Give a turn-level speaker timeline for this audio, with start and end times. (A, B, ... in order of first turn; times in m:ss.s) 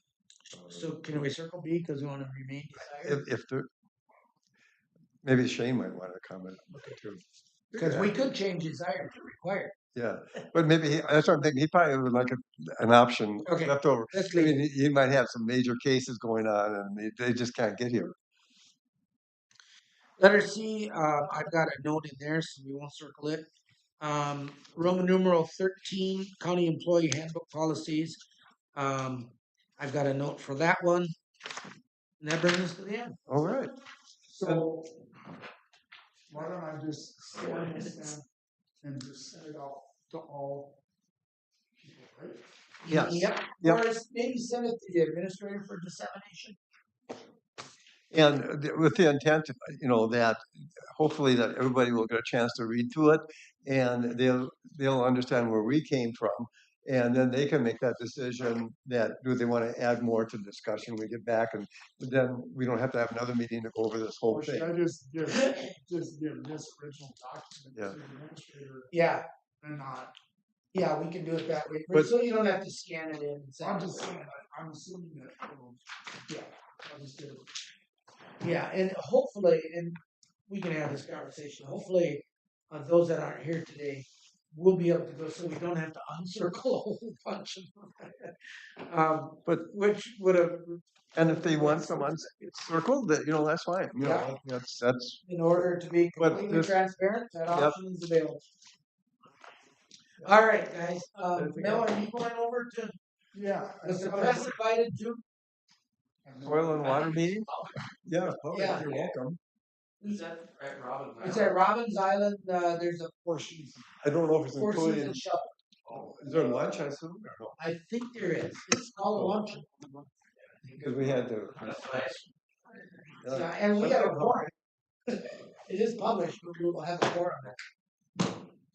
0:00.5-0:00.8 A
0:00.7-0:03.2 B
0:02.8-0:03.7 A
0:05.2-0:08.1 A
0:07.7-0:09.7 B
0:09.9-0:18.2 A
0:13.4-0:14.6 B
0:20.2-0:23.5 B
0:24.0-0:28.2 B
0:28.8-0:31.1 B
0:32.2-0:33.2 B
0:33.3-0:33.7 A
0:34.3-0:34.9 C
0:36.3-0:38.2 C
0:37.4-0:38.1 B
0:38.8-0:40.8 C
0:41.8-0:42.4 C
0:42.8-0:46.6 B
0:42.9-0:43.8 A
0:48.1-1:04.7 A
1:04.3-1:08.9 C
1:05.2-1:05.7 B
1:08.9-1:09.3 B
1:09.6-1:10.1 C
1:10.7-1:14.3 B
1:13.6-1:17.6 C
1:18.4-1:32.5 B
1:31.2-1:35.2 A
1:34.0-1:34.3 B
1:35.2-1:38.5 B
1:36.2-1:36.8 A
1:37.5-1:37.8 A
1:40.2-1:43.0 B
1:41.3-1:41.9 A
1:43.3-1:44.5 C
1:43.8-1:45.2 B
1:46.2-1:47.1 C
1:46.4-1:47.5 A
1:46.9-1:47.2 D
1:47.2-1:47.8 B
1:48.0-1:49.4 A
1:48.5-1:48.9 B
1:48.8-1:49.1 D
1:50.0-1:51.6 D
1:51.2-1:53.9 B
1:54.0-1:55.2 A
1:54.5-1:55.5 B
1:55.9-1:57.6 A
1:57.6-1:59.7 B
2:00.7-2:01.8 A
2:01.6-2:02.2 D
2:01.6-2:02.1 B
2:03.2-2:04.5 A
2:03.2-2:04.5 B
2:05.1-2:07.6 B